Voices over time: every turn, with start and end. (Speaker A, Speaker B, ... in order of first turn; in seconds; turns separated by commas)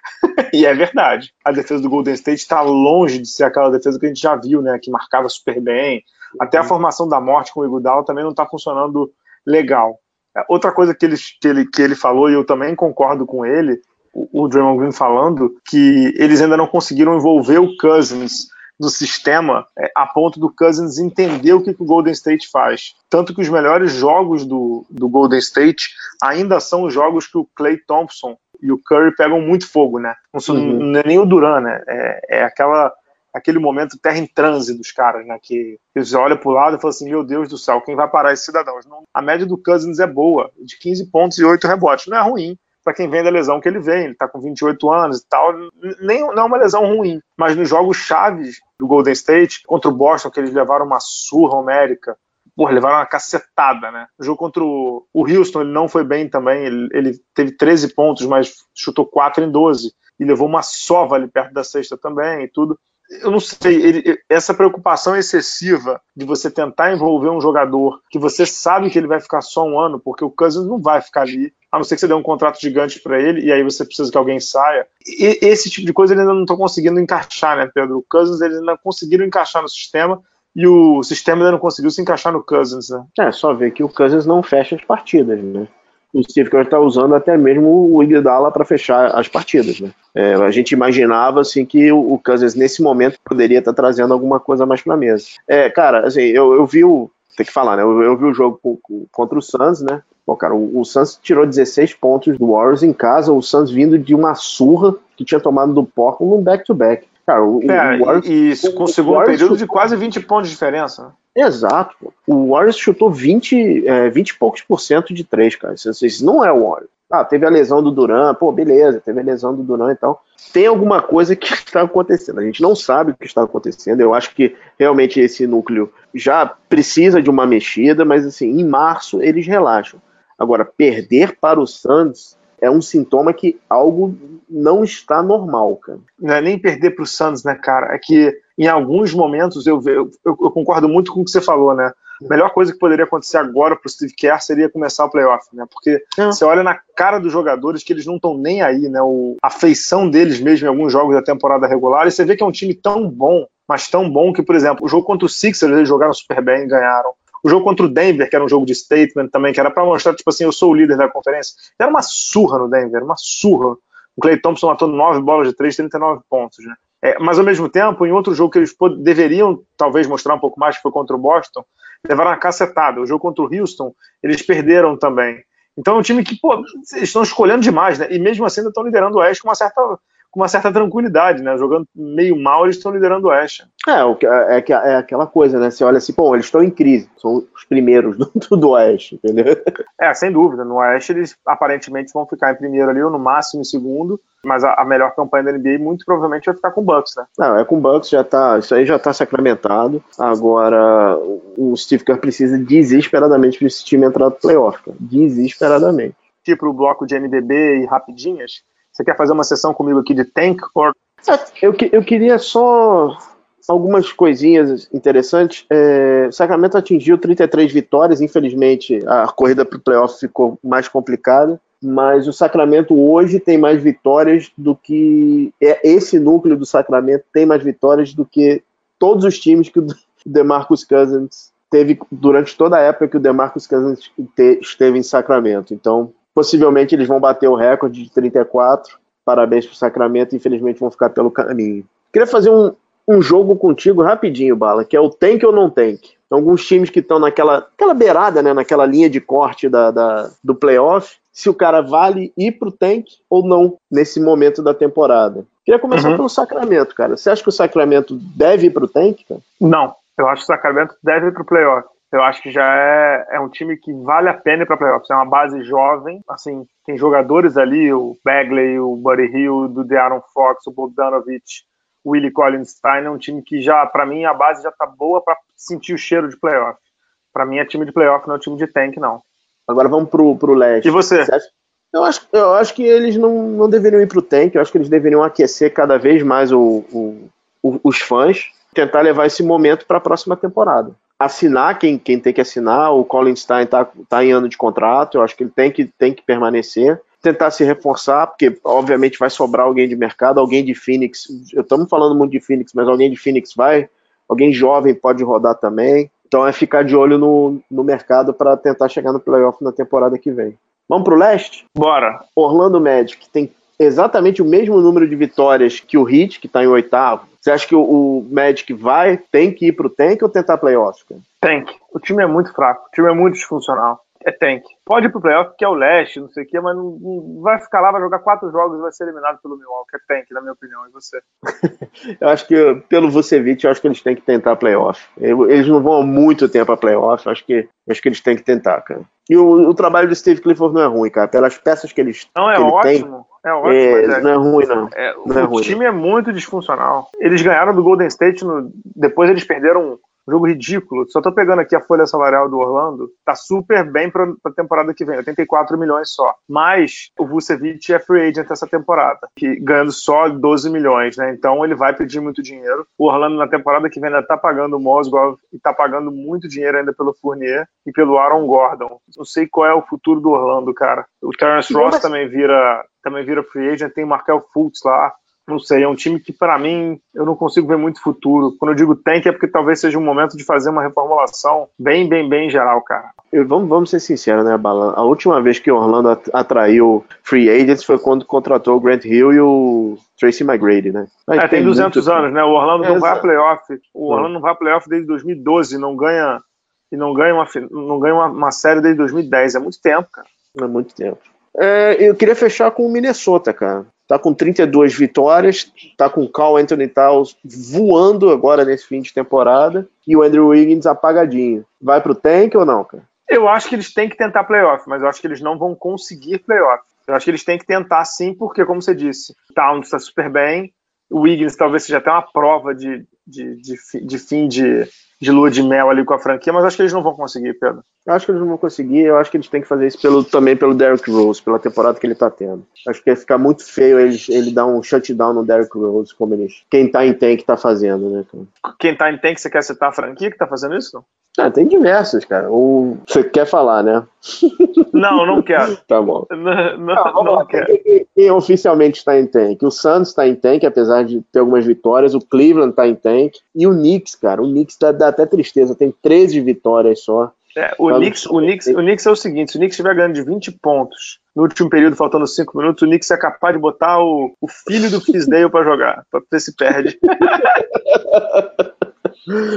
Speaker A: 0.5-83.1, Speaker B: 6.4-6.7, Speaker B: 30.5-30.9, Speaker B: 83.2-109.8, Speaker A: 107.6-111.1, Speaker B: 111.3-136.0, Speaker A: 136.2-183.7, Speaker B: 183.9-189.5, Speaker A: 190.0-197.3, Speaker B: 197.4-206.2, Speaker A: 206.4-210.9, Speaker B: 211.2-259.4, Speaker A: 255.9-256.2, Speaker A: 259.6-276.8, Speaker A: 277.3-279.2, Speaker B: 279.7-311.6, Speaker A: 280.8-281.3, Speaker A: 311.8-312.2, Speaker B: 312.4-321.2, Speaker A: 321.4-331.2, Speaker B: 331.6-343.1, Speaker A: 342.4-344.2, Speaker B: 343.6-345.8, Speaker A: 344.9-383.1, Speaker B: 371.7-372.1, Speaker B: 383.3-392.3, Speaker A: 391.4-400.3, Speaker B: 392.8-393.2, Speaker B: 400.6-413.0, Speaker A: 413.3-427.8, Speaker B: 428.1-438.5, Speaker A: 438.6-441.0, Speaker B: 441.4-446.3, Speaker A: 444.9-445.8, Speaker A: 446.3-447.7, Speaker B: 446.9-457.3, Speaker A: 457.6-467.6, Speaker B: 457.9-458.8, Speaker B: 467.2-468.7